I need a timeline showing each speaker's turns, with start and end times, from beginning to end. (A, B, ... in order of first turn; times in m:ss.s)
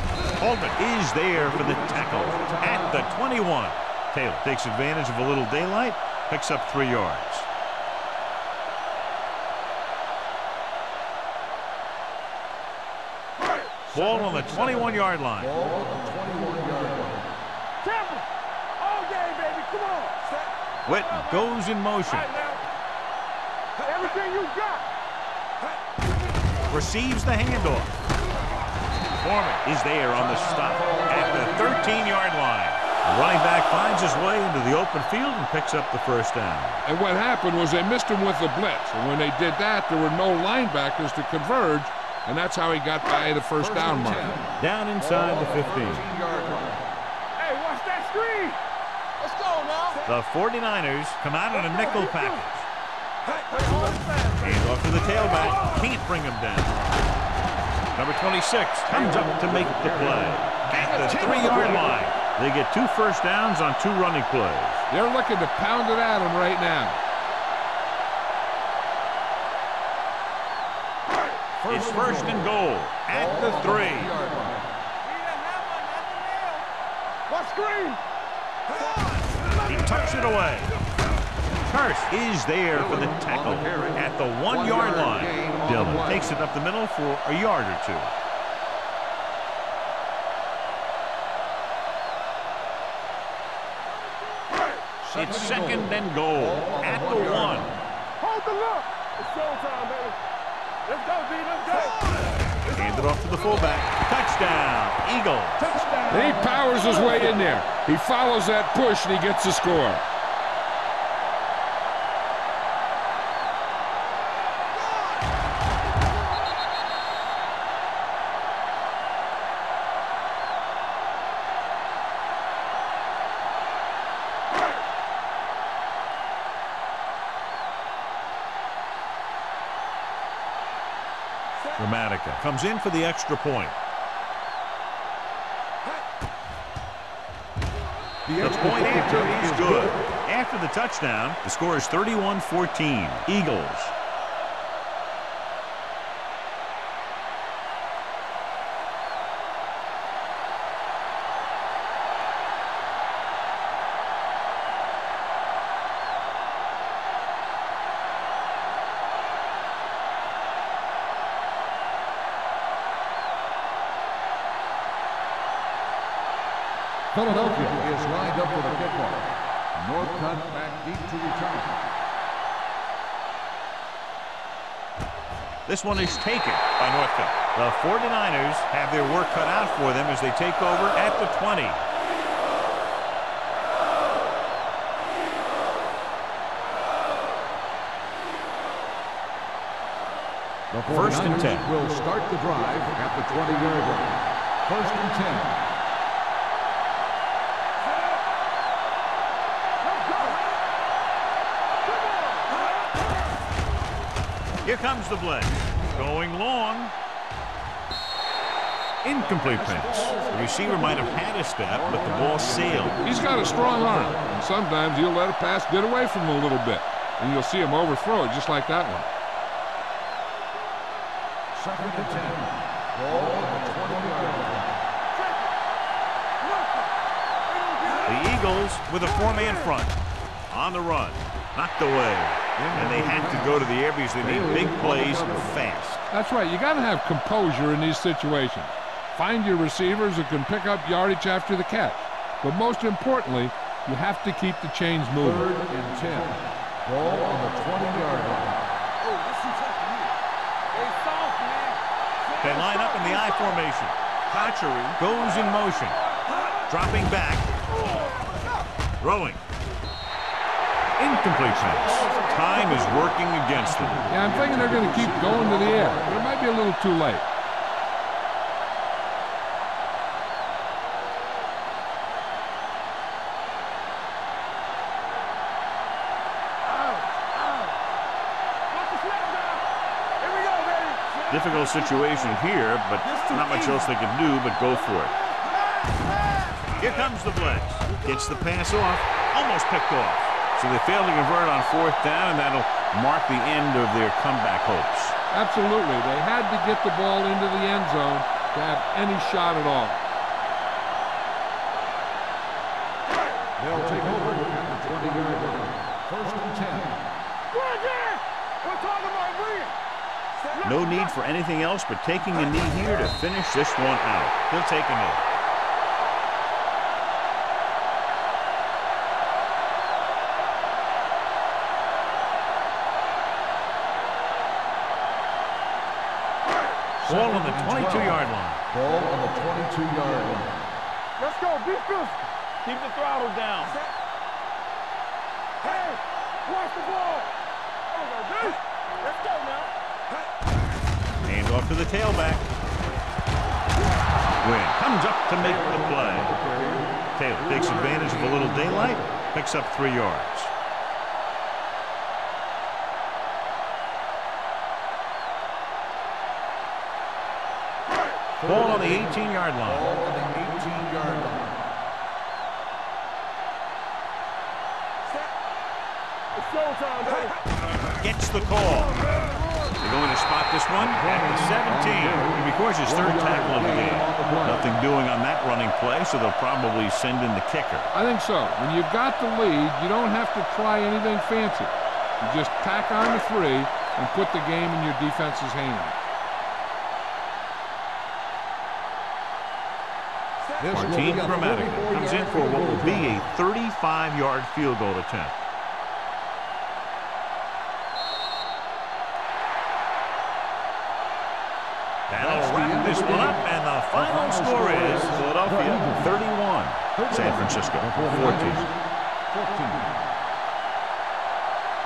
0:00.4-0:07.5 A
0:01.4-0:03.0 B
0:13.9-0:15.5 A
0:13.9-0:17.3 B
0:17.8-0:18.2 C
0:18.8-0:20.2 C
0:20.8-0:22.3 A
0:20.9-0:21.5 C
0:22.0-0:22.6 C
0:23.8-0:24.8 C
0:26.7-0:27.9 A
0:29.2-0:36.8 A
0:30.1-0:32.0 B
0:36.8-0:44.4 D
0:43.6-0:46.9 B
0:44.6-0:46.1 A
0:47.4-0:48.6 C
0:49.2-0:50.0 C
0:50.0-0:52.7 A
0:51.5-0:52.4 C
0:53.5-0:55.8 C
0:54.4-0:56.9 A
0:57.9-1:04.8 A
0:58.9-1:01.9 B
1:00.7-1:01.8 C
1:04.9-1:07.0 D
1:11.6-1:12.5 B
1:11.7-1:14.1 A
1:13.1-1:14.7 B
1:15.0-1:16.6 C
1:17.3-1:18.0 C
1:18.7-1:20.6 C
1:19.6-1:20.7 A
1:21.6-1:28.1 A
1:22.7-1:26.3 B
1:35.0-1:37.7 B
1:35.1-1:37.7 A
1:38.2-1:40.2 C
1:40.8-1:43.3 C
1:42.7-1:45.7 A
1:45.6-1:47.3 C
1:46.1-1:50.0 D
2:11.8-2:13.8 A
2:18.2-2:20.1 B
2:18.4-2:23.9 A
2:47.1-2:51.8 B
2:55.6-3:01.8 A
3:10.7-3:15.6 B
3:10.9-3:11.7 A
3:19.8-3:20.4 C
3:21.8-3:22.6 C
3:24.6-3:26.9 A
3:29.0-3:33.0 A
3:29.3-3:34.2 B
3:33.0-3:39.1 D
3:41.5-3:44.7 B
3:45.1-3:45.5 C
3:46.4-3:46.9 C
3:47.5-3:48.3 C
3:48.0-3:50.0 A
3:49.1-3:49.7 C
3:50.5-3:56.0 A
3:52.6-3:53.7 B
3:54.2-3:55.5 B
3:56.1-4:05.5 D
4:05.2-4:08.7 B
4:09.1-4:10.0 C
4:10.7-4:13.6 C
4:12.4-4:16.0 A
4:15.0-4:16.3 C
4:16.7-4:17.5 A
4:19.0-4:19.4 A
4:21.0-4:24.1 A
4:21.5-4:26.3 B
4:24.1-4:27.2 D
4:36.7-4:37.8 C
4:38.7-4:39.6 C
4:40.2-4:42.4 C
4:41.3-4:45.1 A
4:44.7-4:46.9 C
4:46.8-4:55.2 A
4:47.8-4:48.2 C
4:55.3-5:00.0 D
5:03.6-5:07.0 B
5:07.5-5:09.8 C
5:10.5-5:11.1 C
5:10.6-5:15.3 A
5:27.0-5:30.7 B
5:27.0-5:28.6 A
5:31.2-5:32.3 C
5:32.6-5:33.8 A
5:35.6-5:37.3 C
5:37.9-5:39.7 C
5:41.2-5:42.5 A
5:44.4-5:46.4 A
5:45.6-5:46.8 B
5:47.1-5:50.5 A
5:47.4-5:49.0 B
5:58.4-6:01.6 B
5:58.4-5:59.9 A
6:06.3-6:07.4 C
6:08.0-6:09.0 A
6:09.8-6:17.9 A
6:10.8-6:14.7 B
6:17.9-6:26.0 D
6:30.6-6:33.2 B
6:30.7-6:35.4 A
6:42.1-6:48.7 A
6:42.2-6:46.1 B
6:47.0-6:48.7 B
6:49.3-6:50.0 B